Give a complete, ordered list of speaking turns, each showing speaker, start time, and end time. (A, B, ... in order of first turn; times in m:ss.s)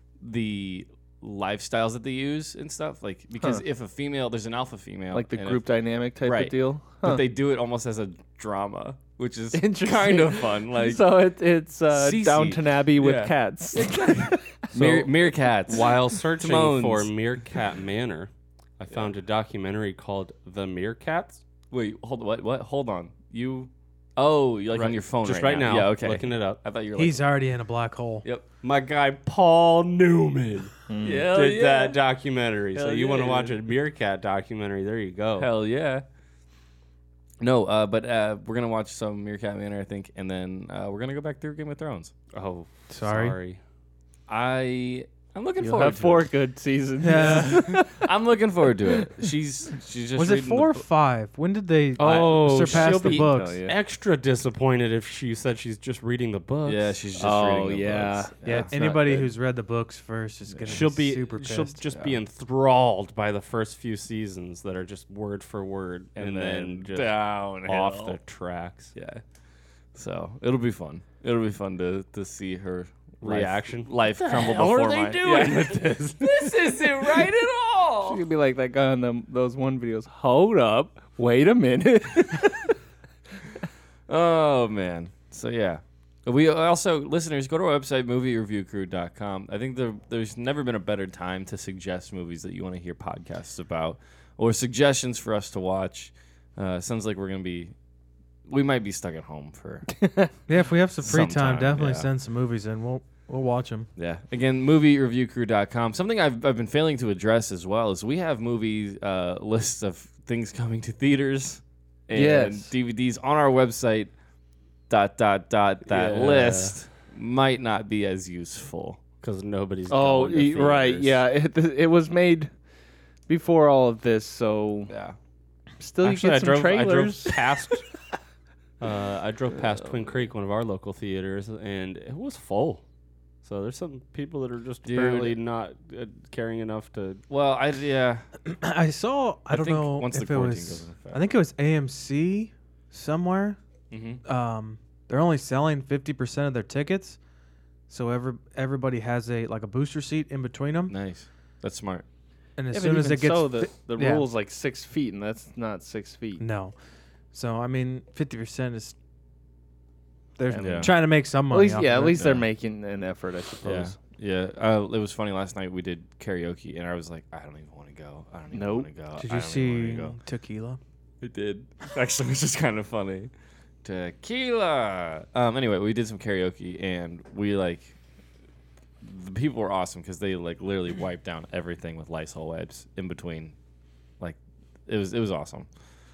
0:00.2-0:05.6 A
0:05.1-0:07.2 B
0:06.2-0:11.2 A
0:09.5-0:15.0 B
0:11.9-0:17.1 A
0:15.7-0:21.4 C
0:21.7-0:27.4 A
0:24.7-0:26.6 C
0:27.0-0:28.2 D
0:28.6-0:30.8 C
0:30.9-0:31.3 B
0:31.0-0:32.0 A
0:31.3-0:35.5 C
0:32.8-0:33.5 B
0:35.4-0:36.0 A
0:37.4-0:42.1 A
0:42.3-0:43.6 C
0:42.9-0:43.4 D
0:44.3-0:46.3 A
0:45.6-0:48.1 B
0:47.0-0:47.6 D
0:47.1-0:50.8 A
0:50.2-0:53.6 D
0:52.0-0:53.8 B
0:52.0-0:57.0 C
0:56.6-0:58.8 A
0:57.2-0:59.3 B
0:58.4-1:01.8 D
1:00.7-1:08.9 C
1:01.9-1:02.2 A
1:06.2-1:08.2 A
1:08.9-1:09.2 A
1:09.9-1:18.2 A
1:13.2-1:17.3 C
1:15.3-1:15.6 B
1:18.0-1:22.8 B
1:24.1-1:37.7 A
1:38.5-1:39.9 A
1:40.5-1:43.9 D
1:41.0-1:42.1 A
1:44.0-1:54.1 A
1:52.1-1:52.7 B
1:54.9-1:59.0 A
1:55.9-1:56.8 C
1:59.2-2:01.2 C
1:59.9-2:02.5 B
2:03.3-2:04.9 B
2:04.9-2:05.2 A
2:05.8-2:07.4 B
2:06.0-2:07.9 C
2:08.8-2:12.8 C
2:09.5-2:10.3 A
2:13.4-2:17.2 C
2:14.8-2:15.4 A
2:17.3-2:18.2 A
2:18.4-2:23.6 D
2:19.5-2:21.3 A
2:23.9-2:24.2 A
2:24.2-2:27.2 D
2:27.9-2:30.9 D
2:30.9-2:32.0 A
2:32.6-2:34.3 D
2:32.7-2:36.4 B
2:36.4-2:36.7 D
2:37.3-2:39.0 D
2:40.4-2:42.2 D
2:40.5-2:44.0 B
2:40.6-2:40.9 A
2:42.0-2:42.5 A
2:43.6-2:50.2 A
2:48.5-2:48.9 B
2:49.2-2:50.8 D
2:51.2-2:53.3 A
2:53.8-2:58.0 A
2:59.0-3:03.6 A
3:04.2-3:05.7 A